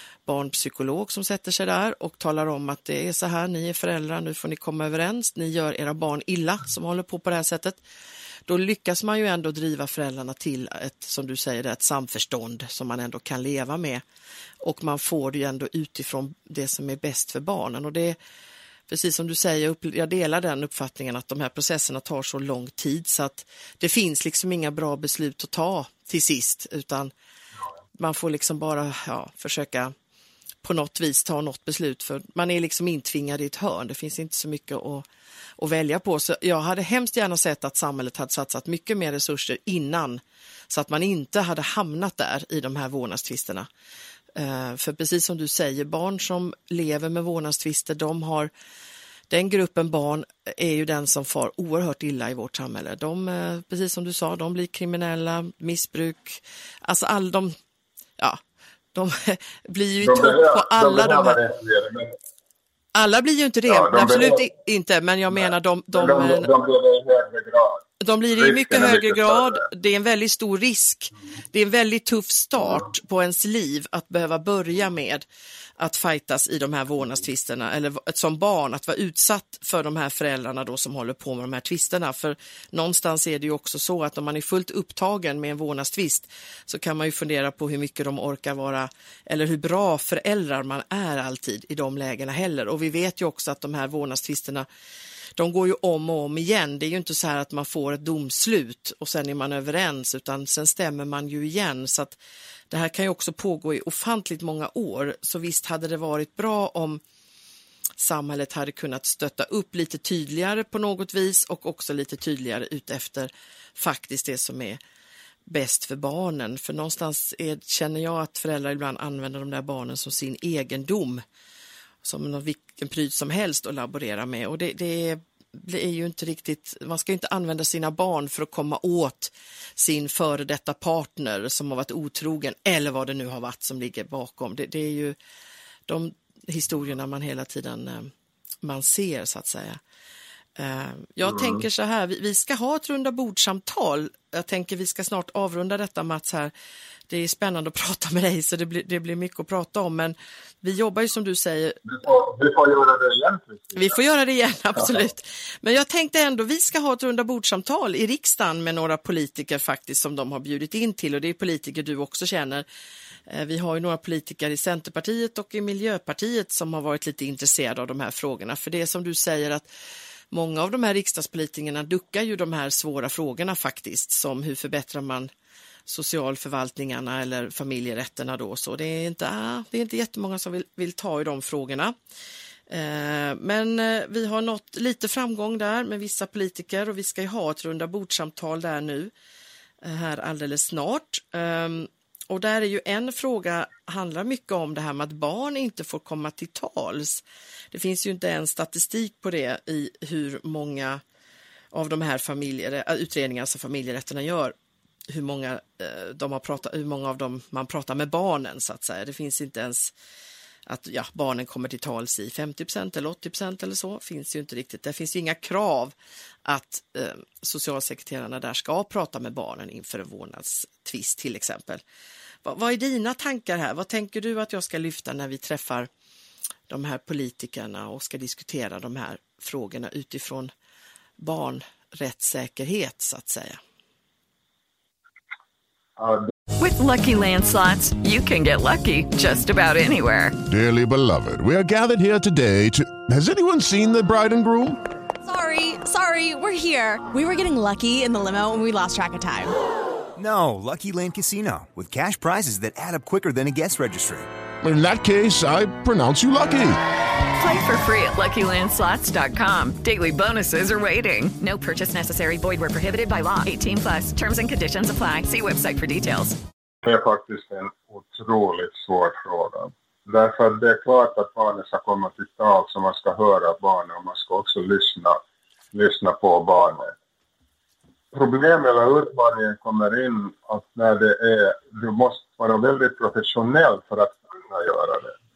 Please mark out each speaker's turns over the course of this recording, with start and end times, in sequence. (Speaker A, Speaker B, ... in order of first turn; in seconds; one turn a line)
Speaker A: 0.2-7.8
Speaker A: 8.5-14.0
Speaker A: 14.6-18.2
Speaker A: 18.9-27.1
Speaker A: 27.9-29.9
Speaker A: 30.6-35.0
Speaker A: 35.6-43.7
Speaker A: 44.3-48.5
Speaker A: 49.3-57.5
Speaker A: 58.9-61.4
Speaker B: 60.0-62.1
Speaker A: 62.9-66.5
Speaker B: 63.7-64.5
Speaker B: 65.3-69.7
Speaker A: 68.0-75.2
Speaker A: 75.8-94.7
Speaker A: 95.4-102.2
Speaker A: 102.7-107.0
Speaker A: 108.0-114.8
Speaker A: 115.5-121.2
Speaker A: 122.0-135.2
Speaker A: 135.9-138.1
Speaker A: 138.6-139.8
Speaker A: 140.6-146.5
Speaker B: 141.2-141.6
Speaker A: 147.1-151.8
Speaker B: 151.8-154.0
Speaker A: 153.8-162.6
Speaker B: 154.7-155.0
Speaker A: 163.3-169.7
Speaker A: 170.3-175.3
Speaker A: 175.9-181.9
Speaker A: 182.7-189.1
Speaker A: 189.8-201.0
Speaker A: 201.7-204.5
Speaker A: 205.1-209.9
Speaker A: 210.7-215.9
Speaker A: 216.4-221.8
Speaker A: 222.4-225.9
Speaker A: 226.7-230.5
Speaker A: 231.2-233.6
Speaker B: 236.0-236.3
Speaker C: 236.6-240.3
Speaker D: 240.5-244.8
Speaker E: 245.2-249.6
Speaker F: 250.2-254.3
Speaker D: 254.6-256.8
Speaker C: 257.3-266.4
Speaker B: 266.8-275.2
Speaker B: 275.7-276.9
Speaker B: 278.1-285.1